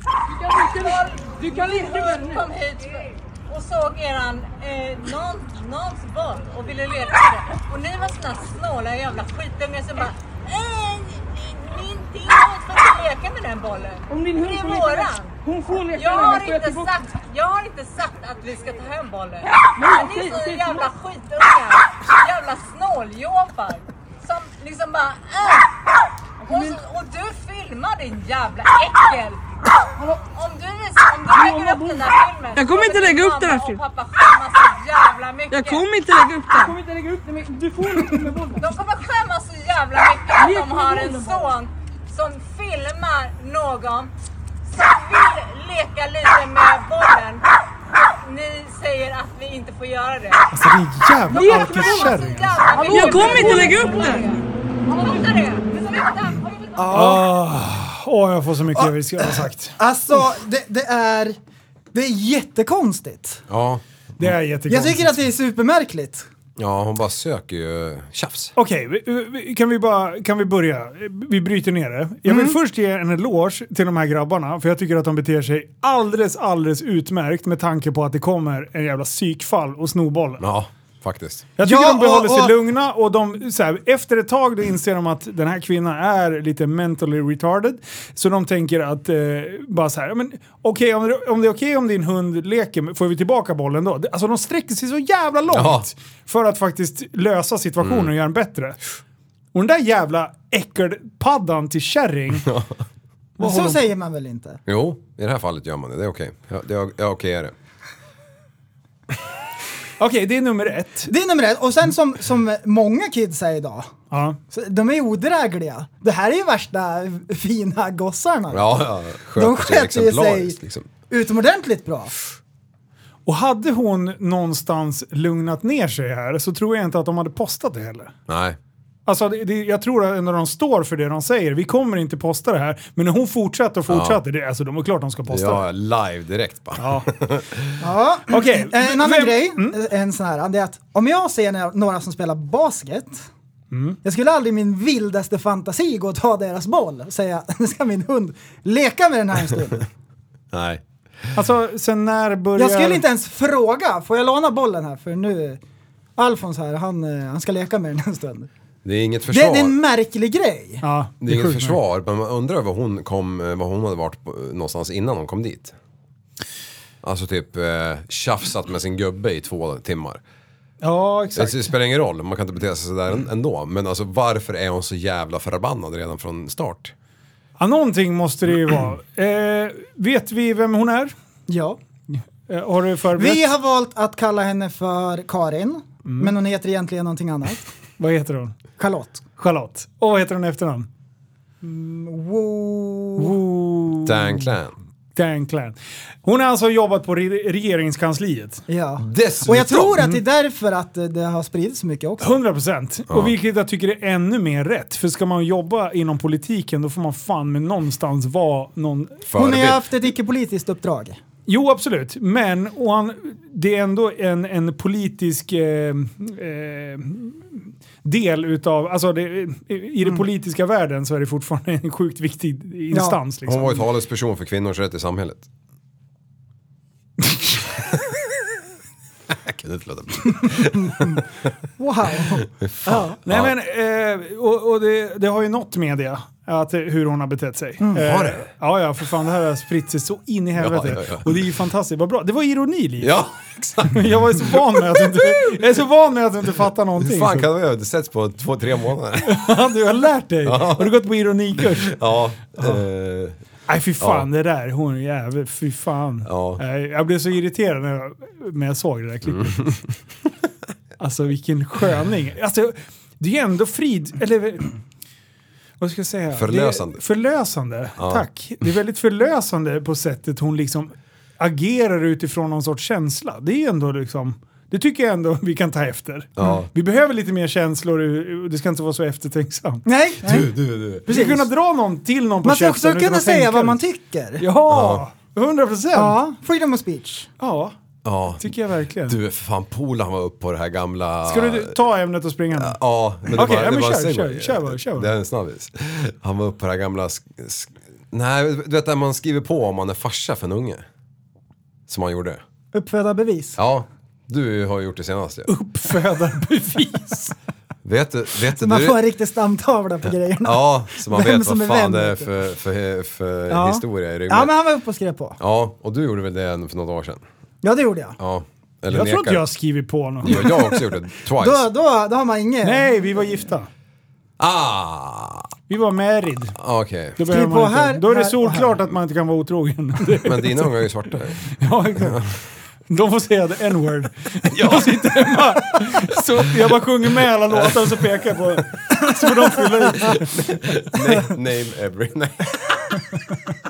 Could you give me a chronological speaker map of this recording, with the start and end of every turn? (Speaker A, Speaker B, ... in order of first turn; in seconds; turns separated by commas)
Speaker A: 0.3-2.5, Speaker B: 0.6-15.3, Speaker A: 14.1-16.9, Speaker B: 15.9-25.7, Speaker A: 19.6-20.9, Speaker A: 26.4-26.8, Speaker B: 26.4-29.4, Speaker B: 30.3-35.9, Speaker A: 31.3-33.8, Speaker A: 35.5-38.7, Speaker B: 38.6-44.1, Speaker A: 40.4-41.5, Speaker B: 44.7-47.4, Speaker B: 47.9-50.4, Speaker C: 50.5-52.6, Speaker A: 51.3-54.4, Speaker B: 51.3-57.0, Speaker D: 56.8-57.3, Speaker C: 56.9-59.7, Speaker D: 58.8-61.4, Speaker D: 61.9-63.4, Speaker E: 63.5-64.3, Speaker C: 64.2-65.2, Speaker D: 64.7-66.2, Speaker E: 66.6-68.5, Speaker C: 68.5-80.4, Speaker D: 72.2-72.5, Speaker E: 80.4-81.5, Speaker C: 81.6-98.8, Speaker D: 81.6-82.5, Speaker E: 95.5-95.9, Speaker E: 97.8-98.1, Speaker C: 99.5-102.5, Speaker E: 102.4-102.7, Speaker C: 103.4-103.8, Speaker D: 103.4-104.6, Speaker E: 104.7-107.5, Speaker C: 110.0-111.1, Speaker D: 111.1-113.9, Speaker C: 114.1-114.4, Speaker D: 114.5-118.8, Speaker E: 118.5-120.9, Speaker D: 119.3-120.6, Speaker D: 121.1-122.1, Speaker C: 123.2-128.1, Speaker E: 128.3-128.6, Speaker C: 129.1-135.6, Speaker E: 133.9-134.2, Speaker E: 135.3-137.7, Speaker C: 136.8-137.1, Speaker D: 137.8-143.2, Speaker C: 138.3-139.7, Speaker C: 143.7-144.0, Speaker D: 144.0-149.8, Speaker E: 150.5-151.3, Speaker C: 151.3-153.0, Speaker D: 152.6-155.6, Speaker D: 156.2-158.5, Speaker E: 158.8-159.7, Speaker D: 159.3-160.8, Speaker C: 160.8-161.8, Speaker E: 161.2-165.7, Speaker E: 167.0-170.2, Speaker C: 170.8-171.7, Speaker E: 171.3-176.9, Speaker C: 177.6-181.1, Speaker D: 181.5-181.8, Speaker C: 182.1-183.4, Speaker D: 183.2-187.6, Speaker C: 186.1-186.3, Speaker C: 188.0-188.6, Speaker D: 188.8-189.2, Speaker C: 189.4-190.9, Speaker D: 191.6-193.3, Speaker C: 193.2-194.5, Speaker E: 194.0-194.8, Speaker C: 195.1-198.6, Speaker D: 198.7-202.3, Speaker E: 199.0-200.0, Speaker C: 202.2-209.2, Speaker E: 203.1-203.3, Speaker E: 209.2-209.8, Speaker D: 209.3-211.2, Speaker C: 211.5-223.8, Speaker D: 222.9-223.2, Speaker E: 223.4-225.5, Speaker E: 229.3-231.2, Speaker D: 230.5-231.2, Speaker D: 231.8-233.2, Speaker E: 232.2-233.5, Speaker C: 233.2-243.2, Speaker E: 238.0-238.5, Speaker E: 240.6-241.4, Speaker E: 243.0-245.6, Speaker C: 243.8-247.5, Speaker E: 247.0-249.4, Speaker C: 249.2-252.0, Speaker E: 250.4-251.0, Speaker E: 251.6-253.4, Speaker C: 252.5-252.8, Speaker C: 253.7-259.7, Speaker E: 254.0-254.3, Speaker E: 256.2-256.6, Speaker E: 259.2-259.8, Speaker C: 261.0-264.7, Speaker C: 265.8-279.8, Speaker E: 266.3-267.0, Speaker E: 268.0-268.2, Speaker E: 276.4-276.7, Speaker D: 279.9-280.5, Speaker E: 280.2-281.1, Speaker D: 281.1-281.4, Speaker C: 281.1-283.8, Speaker D: 282.4-284.4, Speaker C: 284.4-286.2, Speaker E: 284.6-285.0, Speaker D: 285.9-287.3, Speaker C: 287.4-287.7, Speaker E: 288.0-288.5, Speaker C: 288.4-289.2, Speaker E: 289.0-291.8, Speaker C: 291.2-295.1, Speaker E: 292.5-300.8, Speaker E: 301.9-302.4, Speaker D: 302.7-303.6, Speaker E: 303.6-305.5, Speaker C: 305.5-307.3, Speaker E: 307.8-309.0, Speaker D: 308.6-312.3, Speaker E: 310.4-314.5, Speaker D: 313.5-315.4, Speaker E: 315.4-317.2, Speaker D: 317.6-318.2, Speaker E: 318.2-319.4, Speaker C: 318.9-320.6, Speaker E: 320.2-321.7, Speaker D: 321.4-323.1, Speaker C: 322.6-323.7, Speaker E: 324.4-325.5, Speaker C: 325.7-326.6, Speaker E: 326.6-327.2, Speaker C: 327.2-330.8, Speaker D: 327.3-328.7, Speaker E: 330.2-331.5, Speaker C: 331.5-332.3, Speaker E: 332.0-332.2, Speaker C: 332.9-340.5, Speaker E: 334.5-335.1, Speaker E: 337.5-338.2, Speaker E: 340.0-342.9